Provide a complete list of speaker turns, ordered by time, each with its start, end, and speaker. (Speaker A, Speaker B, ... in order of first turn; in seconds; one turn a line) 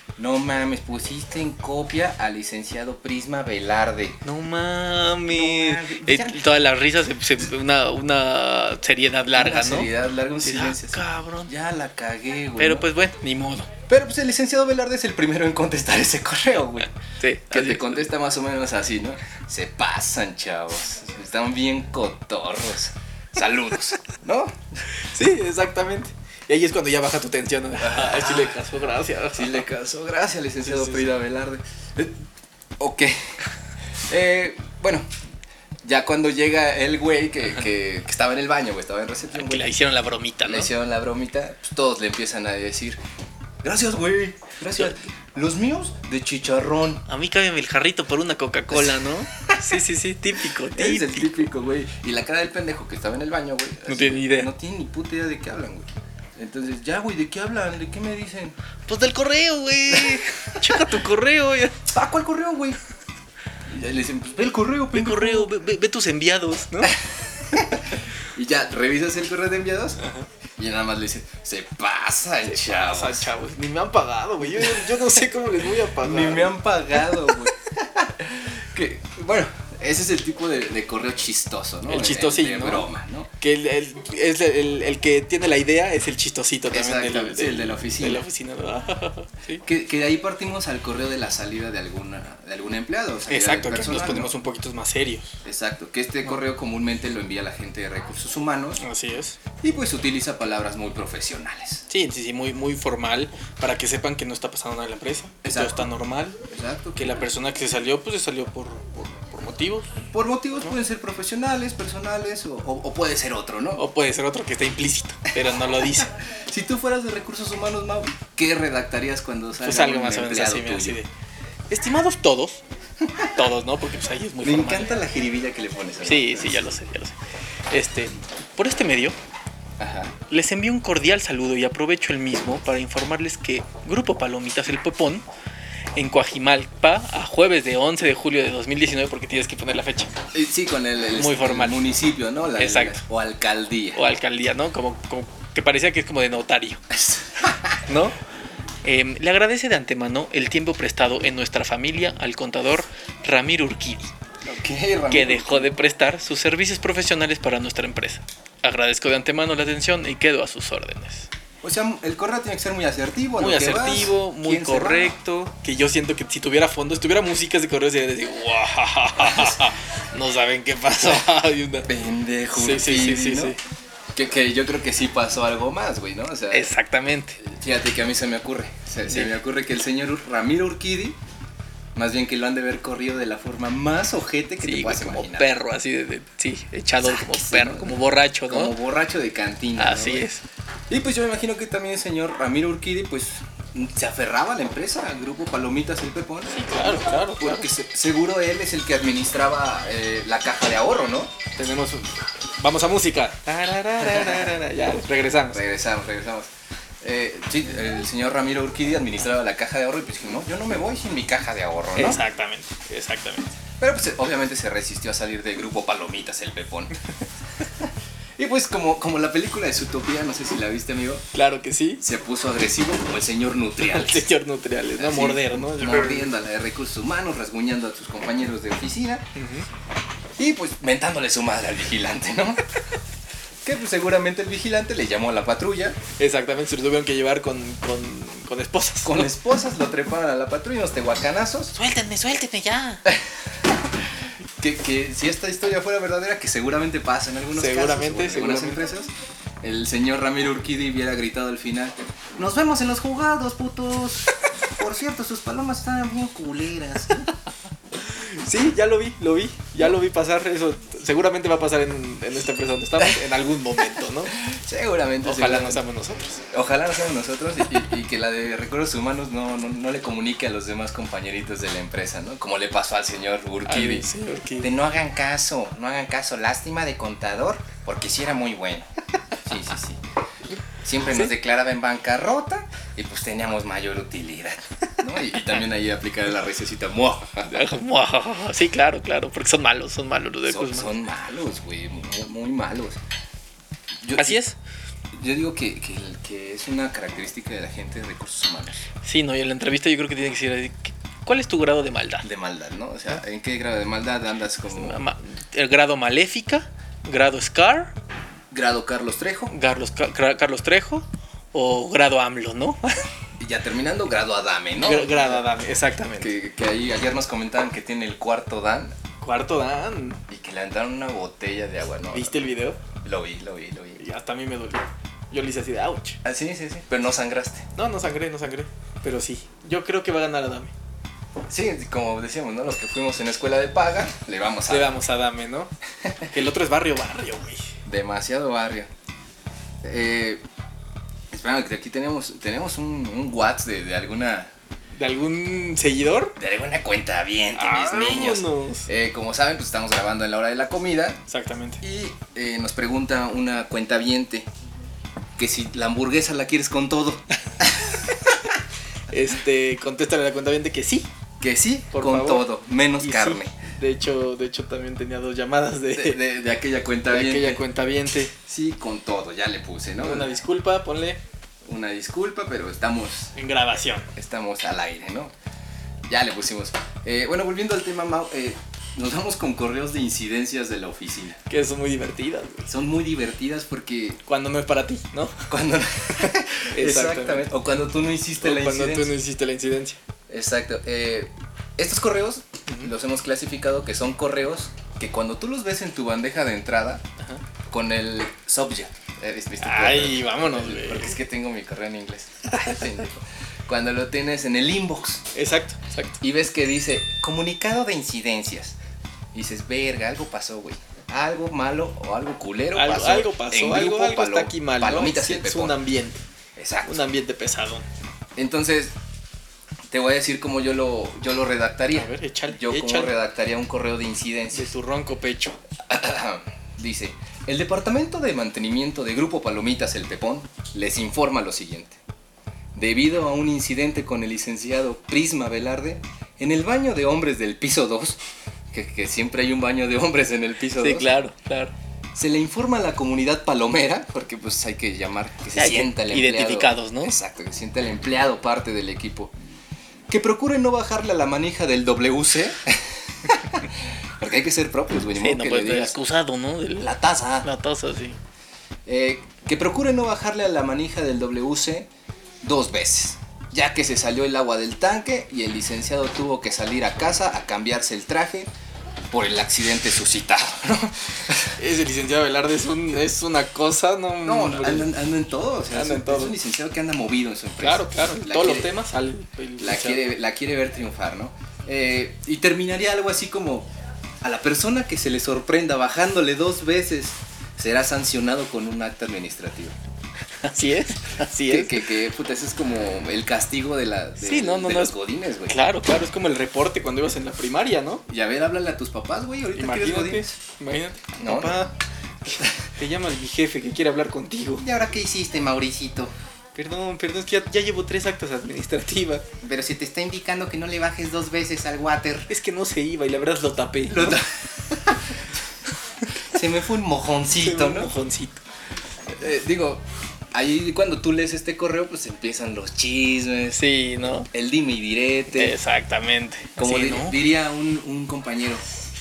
Speaker A: 0.2-4.2
Speaker B: 4.2-9.9
Speaker A: 5.3-6.5
Speaker A: 9.3-12.8
Speaker B: 10.4-11.5
Speaker B: 12.6-13.7
Speaker A: 13.9-16.9
Speaker B: 17.2-18.1
Speaker A: 17.5-24.8
Speaker B: 25.0-29.6
Speaker A: 27.8-28.6
Speaker A: 29.3-32.2
Speaker B: 30.6-31.1
Speaker A: 32.8-33.4
Speaker A: 34.1-35.1
Speaker A: 35.8-39.7
Speaker B: 39.3-40.7
Speaker A: 40.4-43.0
Speaker A: 43.6-47.0
Speaker B: 47.0-51.5
Speaker A: 48.7-49.8
Speaker A: 50.6-58.5
Speaker B: 53.9-54.5
Speaker B: 58.9-61.9
Speaker A: 59.9-60.9
Speaker A: 61.9-62.8
Speaker A: 63.7-65.5
Speaker B: 64.9-67.0
Speaker A: 66.9-70.0
Speaker B: 70.0-70.3
Speaker A: 70.6-73.3
Speaker B: 72.5-76.6
Speaker A: 74.6-75.0
Speaker A: 76.0-83.3
Speaker B: 81.9-82.9
Speaker B: 83.4-89.6
Speaker A: 86.7-88.2
Speaker A: 89.6-94.3
Speaker B: 93.3-95.4
Speaker A: 95.4-98.8
Speaker B: 98.8-99.4
Speaker A: 99.6-101.8
Speaker B: 101.9-106.4
Speaker A: 105.4-105.9
Speaker A: 106.4-107.1
Speaker B: 106.9-109.9
Speaker A: 110.1-113.8
Speaker B: 113.8-116.1
Speaker A: 115.4-121.0
Speaker B: 119.6-121.1
Speaker B: 121.7-122.6
Speaker B: 123.3-124.9
Speaker A: 124.4-126.7
Speaker B: 126.0-127.2
Speaker B: 127.7-129.2
Speaker A: 129.8-130.1
Speaker B: 130.3-135.2
Speaker B: 135.9-140.1
Speaker A: 140.3-144.0
Speaker B: 141.2-141.9
Speaker B: 142.6-143.0
Speaker B: 143.9-146.8
Speaker A: 146.9-147.8
Speaker B: 147.9-148.2
Speaker B: 148.8-154.1
Speaker A: 154.4-155.7
Speaker B: 155.1-161.3
Speaker A: 161.6-165.1
Speaker B: 163.4-171.9
Speaker A: 169.2-169.6
Speaker A: 171.9-173.6
Speaker B: 172.5-173.6
Speaker A: 174.1-176.7
Speaker B: 176.5-177.4
Speaker A: 177.4-181.2
Speaker B: 179.1-179.3
Speaker A: 181.9-185.5
Speaker B: 184.6-188.8
Speaker A: 187.0-187.9
Speaker A: 188.5-190.2
Speaker B: 189.8-190.4
Speaker A: 190.9-196.6
Speaker B: 196.5-197.7
Speaker A: 197.4-201.3
Speaker B: 201.6-205.6
Speaker A: 204.0-204.5
Speaker A: 205.5-206.5
Speaker A: 207.0-212.2
Speaker B: 211.9-213.5
Speaker A: 213.8-216.9
Speaker A: 217.8-221.2
Speaker B: 221.3-222.0
Speaker A: 222.0-224.3
Speaker B: 223.8-226.3
Speaker A: 225.0-229.3
Speaker B: 229.3-229.7
Speaker A: 230.4-232.6
Speaker A: 233.6-236.0
Speaker B: 236.2-239.3
Speaker A: 239.0-241.7
Speaker B: 241.7-243.0
Speaker A: 244.6-257.3
Speaker B: 247.5-248.8
Speaker B: 258.0-264.4
Speaker A: 264.3-265.8
Speaker B: 265.2-266.4
Speaker A: 266.5-274.1
Speaker B: 273.6-274.7
Speaker A: 274.6-278.9
Speaker A: 279.4-280.0
Speaker A: 280.8-287.6
Speaker B: 287.4-290.9
Speaker A: 290.4-293.0
Speaker A: 294.0-294.4
Speaker B: 294.1-294.6
Speaker A: 295.1-298.8
Speaker B: 299.0-302.3
Speaker A: 302.2-305.0
Speaker B: 304.7-307.9
Speaker A: 308.5-309.5
Speaker B: 309.5-313.0
Speaker A: 313.4-315.4
Speaker B: 314.8-316.3
Speaker A: 316.2-318.9
Speaker B: 319.2-320.2
Speaker A: 320.3-322.4
Speaker B: 322.1-322.8
Speaker A: 323.0-324.0
Speaker B: 324.0-326.2
Speaker A: 326.2-327.6
Speaker B: 327.7-330.7
Speaker A: 331.5-335.0
Speaker B: 334.7-335.7
Speaker B: 336.3-337.7
Speaker A: 337.8-338.9
Speaker A: 339.8-340.4
Speaker A: 341.3-344.5
Speaker B: 344.9-346.4
Speaker A: 346.4-351.2
Speaker B: 347.6-348.9
Speaker B: 351.3-351.8
Speaker A: 351.8-354.5
Speaker A: 355.4-358.4
Speaker B: 359.1-361.1
Speaker A: 361.4-363.5
Speaker B: 361.9-362.5
Speaker B: 363.0-366.2
Speaker A: 365.9-367.6
Speaker B: 367.1-368.3
Speaker A: 368.4-370.4
Speaker B: 370.0-371.2
Speaker A: 371.6-373.3
Speaker B: 373.3-374.1
Speaker A: 374.1-375.3
Speaker A: 376.1-381.4
Speaker B: 381.5-382.7
Speaker A: 382.7-384.2
Speaker B: 384.2-385.5
Speaker A: 385.5-389.1
Speaker B: 386.7-387.5
Speaker B: 388.4-390.0
Speaker A: 390.3-397.0
Speaker B: 392.7-392.9
Speaker A: 397.7-405.3
Speaker B: 399.6-401.2
Speaker B: 405.3-406.2
Speaker A: 406.2-408.8
Speaker A: 409.3-415.8
Speaker B: 412.7-416.2
Speaker A: 416.6-417.0
Speaker B: 416.8-417.9
Speaker A: 418.4-418.9
Speaker A: 419.9-424.7
Speaker B: 421.9-423.1
Speaker B: 424.5-425.6
Speaker A: 425.9-432.0
Speaker A: 432.7-438.2
Speaker A: 438.7-441.1
Speaker B: 440.8-441.7
Speaker A: 442.1-449.3
Speaker B: 445.5-447.1
Speaker A: 450.1-456.0
Speaker B: 455.1-458.2
Speaker A: 456.8-457.5
Speaker A: 458.9-461.9
Speaker A: 462.4-468.5
Speaker A: 469.1-471.5
Speaker B: 471.6-474.9
Speaker A: 474.2-478.7
Speaker B: 475.7-476.4
Speaker B: 477.6-480.0
Speaker A: 479.6-483.7
Speaker A: 484.2-489.7
Speaker B: 490.4-491.8
Speaker A: 491.5-495.6
Speaker B: 494.2-494.9
Speaker B: 495.5-498.0
Speaker A: 498.1-500.4
Speaker B: 499.5-504.6
Speaker A: 501.2-501.6
Speaker A: 504.6-506.1
Speaker B: 506.5-509.2
Speaker A: 509.4-512.3
Speaker B: 512.3-514.2
Speaker A: 513.9-514.8
Speaker A: 516.2-517.9
Speaker B: 517.3-518.4
Speaker A: 519.1-523.6
Speaker B: 523.5-524.3
Speaker A: 524.3-525.5
Speaker B: 525.3-527.2
Speaker A: 526.6-528.6